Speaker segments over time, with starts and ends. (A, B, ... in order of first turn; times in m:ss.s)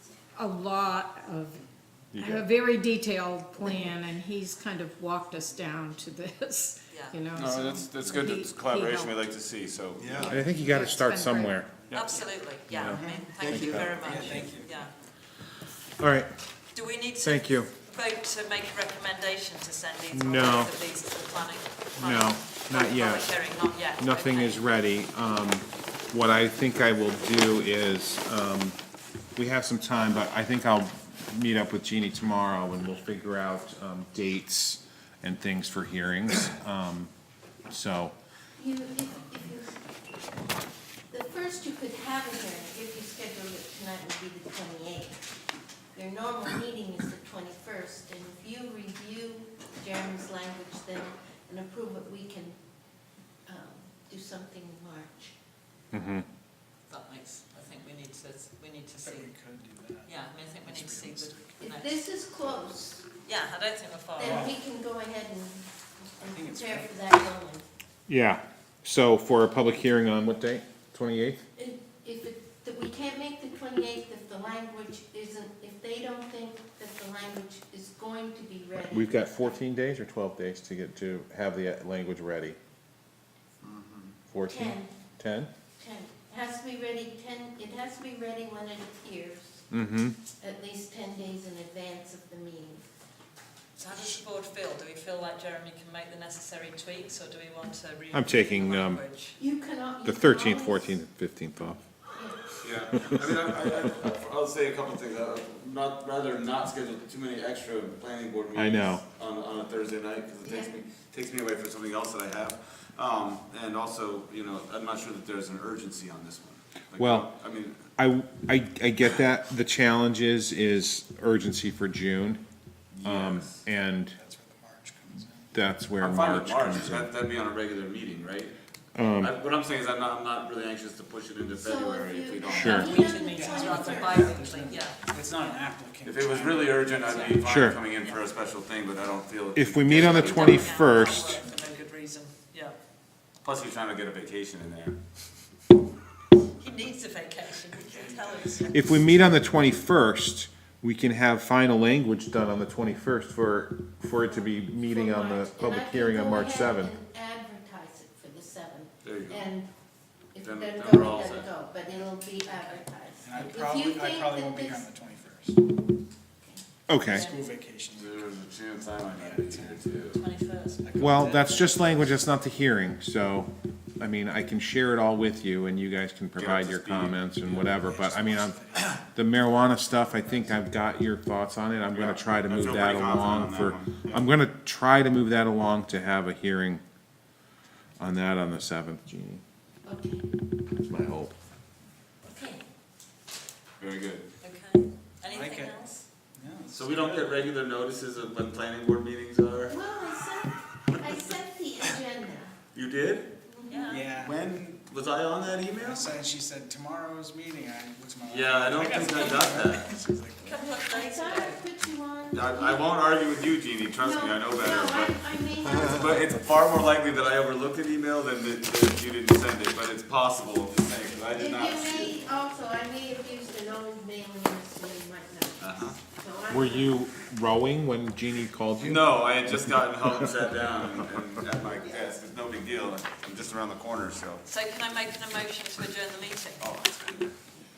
0:00.4-0:09.1 A
0:02.1-0:02.4 B
0:07.4-0:10.3 C
0:10.0-0:10.4 D
0:10.1-0:12.0 B
0:10.2-0:12.3 A
0:11.9-0:14.9 E
0:12.7-0:14.5 B
0:12.8-0:14.8 D
0:16.0-0:16.3 B
0:16.8-0:24.6 E
0:17.2-0:17.7 B
0:20.1-0:20.7 B
0:22.0-0:23.4 B
0:24.0-0:28.8 B
0:29.4-0:37.1 B
0:37.7-0:38.1 B
0:38.6-0:39.8 F
0:41.1-0:45.2 F
0:46.0-0:52.6 F
0:53.5-0:55.4 F
0:55.9-0:56.3 B
0:56.9-0:59.3 E
0:59.0-1:01.6 D
1:00.0-1:02.0 E
1:01.6-1:03.1 F
1:03.3-1:04.5 E
1:04.2-1:07.6 F
1:04.2-1:04.6 D
1:06.2-1:07.3 D
1:08.1-1:11.4 B
1:11.6-1:19.6 F
1:18.9-1:22.6 B
1:24.3-1:25.5 B
1:24.4-1:25.0 F
1:25.8-1:29.6 F
1:29.7-1:30.2 B
1:30.4-1:32.8 F
1:33.8-1:39.4 E
1:38.1-1:39.0 B
1:39.4-1:41.0 F
1:40.0-1:41.8 B
1:42.6-1:57.9 C
1:42.9-1:43.2 B
1:48.6-1:49.0 B
1:50.4-1:50.8 F
1:57.0-1:57.3 B
1:58.0-2:02.4 B
2:02.9-2:03.6 C
2:03.0-2:04.2 B
2:04.1-2:05.5 D
2:05.5-2:07.1 B
2:06.0-2:08.6 C
2:09.0-2:09.4 B
2:09.2-2:13.2 C
2:11.6-2:14.4 F
2:12.5-2:15.0 E
2:12.5-2:13.0 B
2:13.2-2:17.4 D
2:16.0-2:20.9 C
2:17.0-2:17.4 E
2:17.4-2:17.8 B
2:18.0-2:18.2 E
2:19.6-2:21.4 B
2:19.9-2:22.8 E
2:23.4-2:25.0 C
2:26.6-2:28.8 E
2:28.7-2:37.0 B
2:34.3-2:39.7 F
2:39.0-2:39.5 C
2:40.3-2:44.9 F
2:40.4-2:41.5 C
2:43.2-2:45.6 D
2:46.9-2:47.3 B
2:47.0-2:47.4 E
2:47.1-2:48.2 D
2:47.9-2:50.2 C
2:49.1-2:49.9 D
2:50.1-2:51.0 E
2:50.8-2:52.0 D
2:51.0-3:06.8 B
2:56.4-2:57.3 C
2:57.4-2:59.1 D
3:01.9-3:04.3 C
3:08.0-3:09.4 B
3:09.9-3:10.2 F
3:10.8-3:11.4 B
3:12.2-3:12.6 E
3:13.8-3:14.3 C
3:14.4-3:16.0 E
3:15.3-3:15.8 D
3:16.4-3:17.4 D
3:16.7-3:19.8 C
3:19.7-3:22.6 F
3:20.9-3:21.2 C
3:22.7-3:23.3 C
3:23.5-3:24.1 F
3:23.7-3:24.1 E
3:23.9-3:24.5 D
3:24.1-3:26.1 C
3:25.8-3:30.6 D
3:28.3-3:29.9 C
3:30.4-3:31.6 E
3:30.5-3:32.8 F
3:32.3-3:35.2 C
3:34.0-3:36.2 F
3:35.8-3:42.2 C
3:41.3-3:47.0 F
3:45.6-3:46.0 C
3:46.5-3:50.3 B
3:48.8-3:54.4 C
3:54.4-3:56.7 E
3:56.6-3:57.3 C